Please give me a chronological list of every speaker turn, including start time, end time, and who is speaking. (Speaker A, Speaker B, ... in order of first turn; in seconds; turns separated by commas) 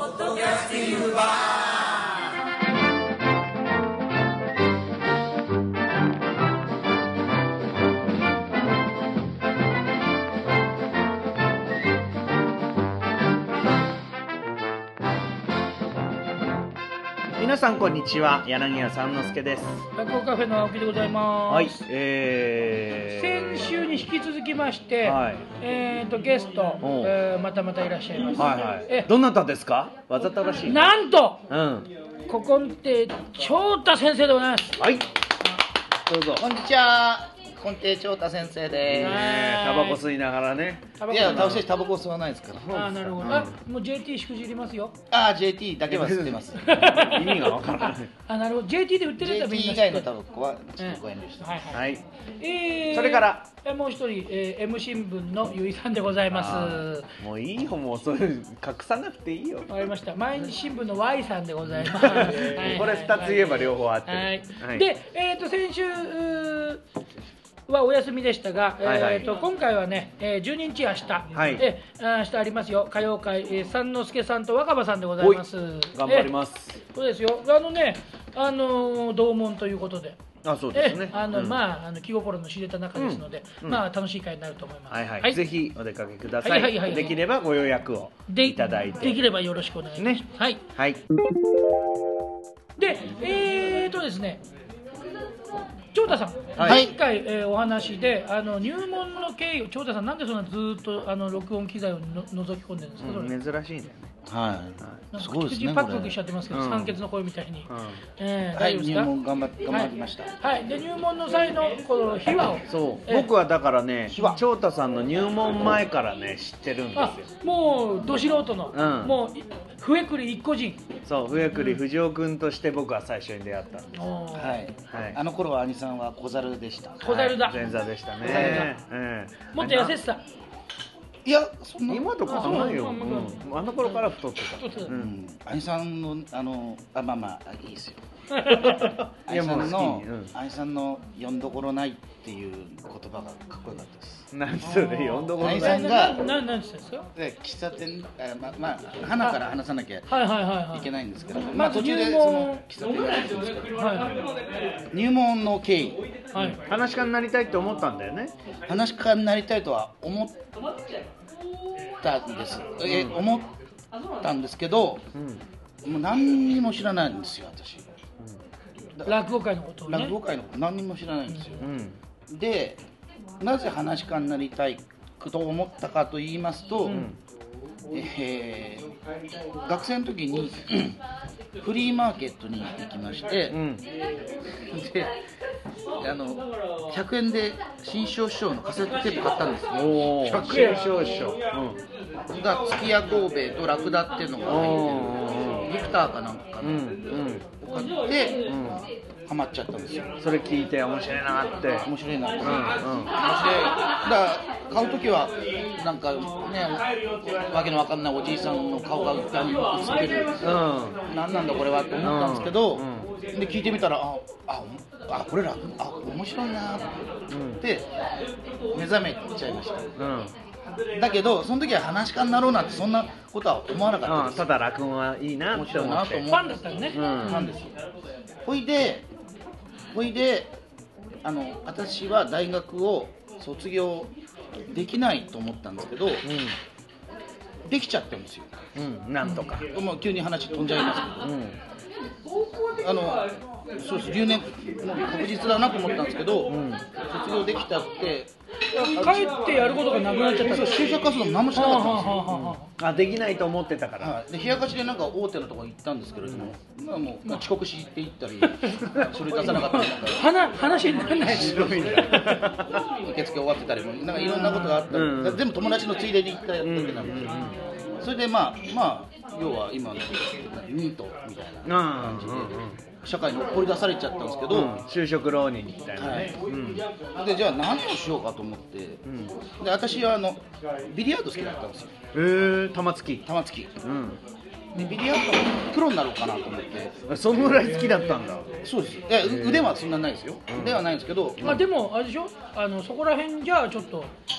Speaker A: 0.4-0.8, Speaker B: 0.6-1.2, Speaker B: 17.4-19.9, Speaker A: 19.9-21.8, Speaker B: 21.5-23.7, Speaker A: 23.1-29.1, Speaker B: 25.0-25.4, Speaker B: 26.8-27.1, Speaker B: 28.4-30.9, Speaker A: 30.6-31.4, Speaker B: 31.5-31.9, Speaker A: 32.3-34.8, Speaker B: 34.8-35.1, Speaker B: 36.1-36.5, Speaker C: 36.4-39.2, Speaker B: 38.9-41.6, Speaker A: 39.0-40.1, Speaker A: 41.0-41.6, Speaker C: 41.1-43.4, Speaker B: 42.7-43.6, Speaker A: 42.7-45.0, Speaker C: 45.1-47.0, Speaker B: 45.9-48.1, Speaker A: 46.5-47.6, Speaker A: 48.3-50.1, Speaker C: 49.2-51.6, Speaker A: 50.8-57.1, Speaker B: 51.7-52.0, Speaker B: 52.9-53.5, Speaker B: 56.3-59.7, Speaker A: 59.7-66.8, Speaker B: 61.7-64.8, Speaker A: 67.7-80.2, Speaker B: 68.8-69.3, Speaker B: 71.3-71.6, Speaker B: 75.2-76.8, Speaker B: 80.4-81.6, Speaker A: 80.7-85.5, Speaker B: 83.0-83.8, Speaker B: 84.9-89.2, Speaker A: 86.4-87.2, Speaker A: 88.3-90.6, Speaker B: 90.0-91.0, Speaker A: 92.8-94.4, Speaker A: 95.9-103.4, Speaker C: 96.6-97.0, Speaker B: 96.6-96.9, Speaker B: 103.0-104.1, Speaker C: 104.3-106.2, Speaker A: 105.1-109.1, Speaker B: 106.5-107.0, Speaker B: 107.7-108.0, Speaker C: 108.5-110.3, Speaker A: 109.7-113.3, Speaker B: 112.7-117.3, Speaker C: 114.1-114.4, Speaker A: 114.1-114.4, Speaker A: 116.9-120.8, Speaker B: 118.7-119.2, Speaker B: 121.0-124.1, Speaker A: 121.4-121.8, Speaker A: 123.9-124.6, Speaker C: 124.3-127.2, Speaker B: 124.9-125.2, Speaker A: 127.0-128.7, Speaker B: 127.0-130.0, Speaker C: 128.2-128.7, Speaker A: 129.5-130.2, Speaker C: 131.2-132.8, Speaker B: 131.9-135.1, Speaker A: 132.2-134.0, Speaker A: 134.6-134.9, Speaker C: 134.9-138.0, Speaker A: 138.3-138.9, Speaker B: 138.6-140.3, Speaker C: 139.3-144.3, Speaker B: 144.3-146.0, Speaker A: 144.6-147.1, Speaker C: 145.4-146.3, Speaker C: 147.2-154.0, Speaker A: 150.1-150.9, Speaker A: 151.5-152.7, Speaker A: 153.8-154.3, Speaker C: 154.9-156.0, Speaker A: 156.3-156.6, Speaker B: 156.4-158.3, Speaker C: 158.7-160.4, Speaker C: 162.0-163.5, Speaker B: 162.8-163.2, Speaker C: 164.2-165.1, Speaker B: 165.2-165.4, Speaker C: 165.8-167.9, Speaker C: 169.0-169.2, Speaker A: 169.1-170.2, Speaker C: 169.9-171.7, Speaker B: 171.6-172.0, Speaker C: 172.3-172.8, Speaker C: 173.4-177.1, Speaker A: 176.8-177.1, Speaker B: 176.9-177.2, Speaker C: 177.9-178.9, Speaker C: 179.7-181.0, Speaker C: 181.6-183.6, Speaker B: 183.5-183.8, Speaker C: 184.7-185.1, Speaker C: 186.0-190.9, Speaker B: 189.7-191.8, Speaker C: 192.3-198.5, Speaker B: 194.5-195.8, Speaker B: 196.6-197.5, Speaker B: 198.4-198.8, Speaker C: 199.3-200.1, Speaker B: 200.2-203.1, Speaker C: 201.8-206.9, Speaker C: 207.5-210.5, Speaker B: 210.4-211.0, Speaker C: 211.1-216.9, Speaker B: 212.0-213.1, Speaker B: 217.3-217.6, Speaker C: 217.6-217.9, Speaker C: 218.7-219.9, Speaker B: 220.0-220.3, Speaker C: 220.9-224.5, Speaker B: 224.0-226.3, Speaker C: 225.5-227.8, Speaker A: 226.3-227.6, Speaker B: 226.9-227.5, Speaker C: 228.4-229.1, Speaker C: 229.9-230.5, Speaker C: 231.2-234.1, Speaker C: 234.7-236.3, Speaker B: 236.2-236.6, Speaker C: 237.7-238.5, Speaker B: 238.8-239.7, Speaker A: 239.2-239.6, Speaker C: 239.7-241.3, Speaker B: 241.2-241.6, Speaker C: 242.8-249.3, Speaker B: 246.5-246.8, Speaker A: 248.7-251.0, Speaker C: 250.4-252.2, Speaker A: 251.5-252.7, Speaker B: 252.2-254.2, Speaker C: 254.0-260.2, Speaker A: 258.4-259.0, Speaker A: 259.5-262.4, Speaker B: 261.2-262.9, Speaker C: 261.3-262.0, Speaker C: 263.0-267.5, Speaker A: 264.2-264.8, Speaker B: 264.9-265.4, Speaker B: 266.6-267.6, Speaker A: 267.3-267.6, Speaker C: 268.0-274.8, Speaker B: 271.6-272.8, Speaker B: 274.5-276.9, Speaker C: 276.0-276.4, Speaker C: 277.2-279.0, Speaker B: 279.1-279.4, Speaker C: 279.6-281.9, Speaker B: 282.1-283.3, Speaker C: 283.2-283.7, Speaker B: 283.8-284.2, Speaker A: 284.7-285.0, Speaker C: 284.8-287.0, Speaker B: 287.1-288.5, Speaker C: 288.6-291.6, Speaker B: 289.2-289.8, Speaker B: 290.5-290.8, Speaker B: 291.4-291.7, Speaker A: 291.4-294.1